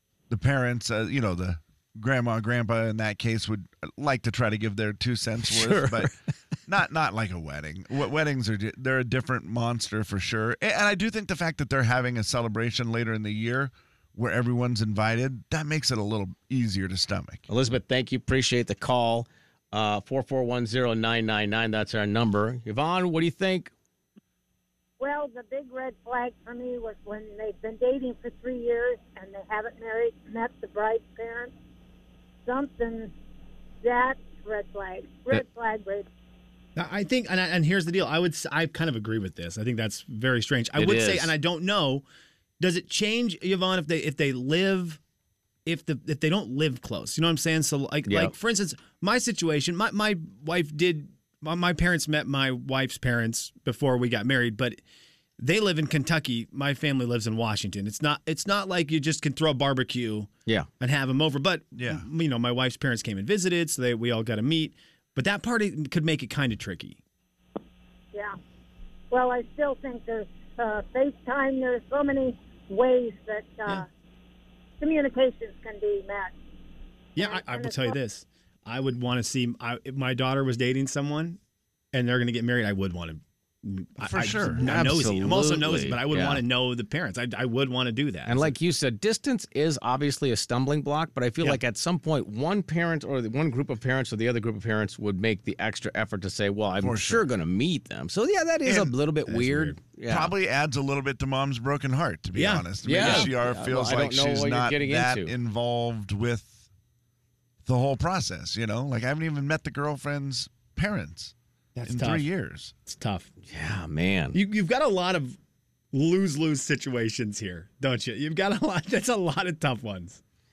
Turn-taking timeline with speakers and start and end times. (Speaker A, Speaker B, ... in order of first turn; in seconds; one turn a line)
Speaker A: 0.3-6.1
Speaker B: 5.4-6.1
Speaker A: 6.7-17.5
Speaker B: 17.5-23.7
Speaker C: 25.0-31.5
Speaker C: 32.5-33.1
Speaker C: 33.8-36.1
Speaker D: 36.8-42.0
Speaker B: 40.8-41.3
Speaker D: 42.6-45.0
Speaker D: 45.7-54.8
Speaker B: 48.1-48.3
Speaker D: 55.4-67.0
Speaker A: 61.8-62.1
Speaker C: 69.1-73.9
Speaker C: 74.8-76.3
Speaker D: 77.2-81.4
Speaker C: 77.2-78.0
Speaker D: 81.9-88.5
Speaker A: 84.0-85.0
Speaker B: 84.6-86.4
Speaker B: 88.2-100.3
Speaker A: 96.8-97.3
Speaker A: 98.7-99.0
Speaker D: 99.3-99.8
Speaker A: 100.1-106.7
Speaker D: 102.3-103.3
Speaker B: 102.8-105.3
Speaker A: 107.7-111.3
Speaker D: 111.8-112.2
Speaker A: 111.9-112.7
Speaker D: 112.9-113.3
Speaker B: 113.5-114.4
Speaker D: 114.3-115.4
Speaker D: 115.9-120.2